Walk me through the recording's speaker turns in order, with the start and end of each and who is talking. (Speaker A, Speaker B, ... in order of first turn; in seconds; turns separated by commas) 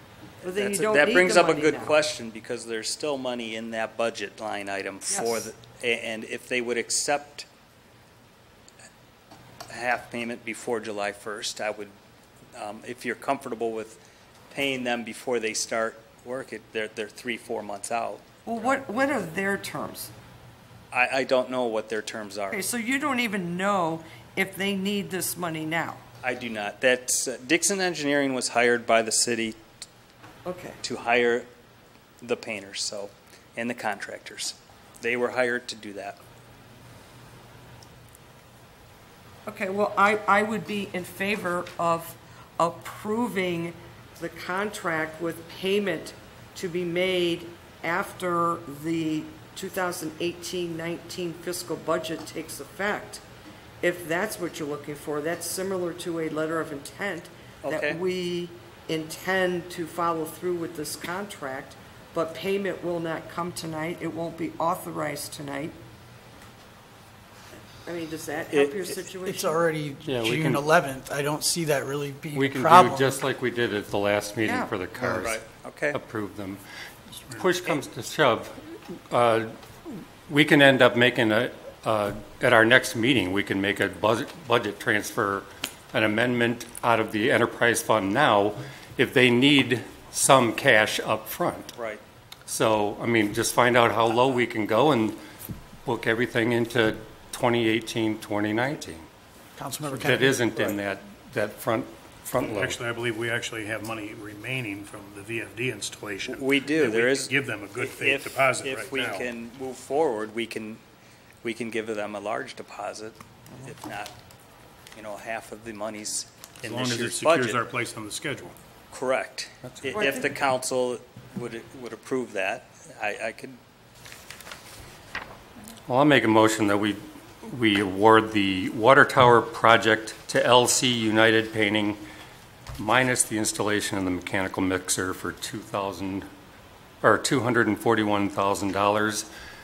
Speaker A: 0.4-2.0, Speaker B: 0.5-7.5, Speaker A: 5.1-5.5, Speaker B: 9.7-11.9, Speaker B: 12.6-18.8, Speaker A: 18.4-20.1, Speaker B: 20.9-22.6, Speaker A: 22.5-26.0, Speaker B: 26.2-29.6, Speaker A: 30.4-30.8, Speaker B: 30.8-31.5, Speaker B: 32.2-36.2, Speaker A: 39.5-53.2, Speaker A: 53.8-65.8, Speaker B: 57.6-58.0, Speaker A: 67.9-69.6, Speaker B: 68.5-69.0, Speaker C: 69.2-73.2, Speaker D: 70.0-70.7, Speaker D: 72.3-76.6, Speaker A: 74.4-74.7, Speaker B: 75.2-76.0, Speaker D: 77.3-91.7, Speaker D: 92.5-95.2, Speaker D: 95.9-99.1, Speaker C: 99.6-100.4, Speaker D: 99.9-102.8, Speaker E: 102.4-109.3, Speaker B: 106.3-110.8, Speaker B: 111.4-114.1, Speaker B: 115.0-117.6, Speaker E: 116.6-118.6, Speaker B: 118.9-123.6, Speaker D: 119.7-120.0, Speaker A: 120.0-120.2, Speaker D: 125.9-132.0, Speaker D: 132.8-136.3, Speaker D: 137.0-139.3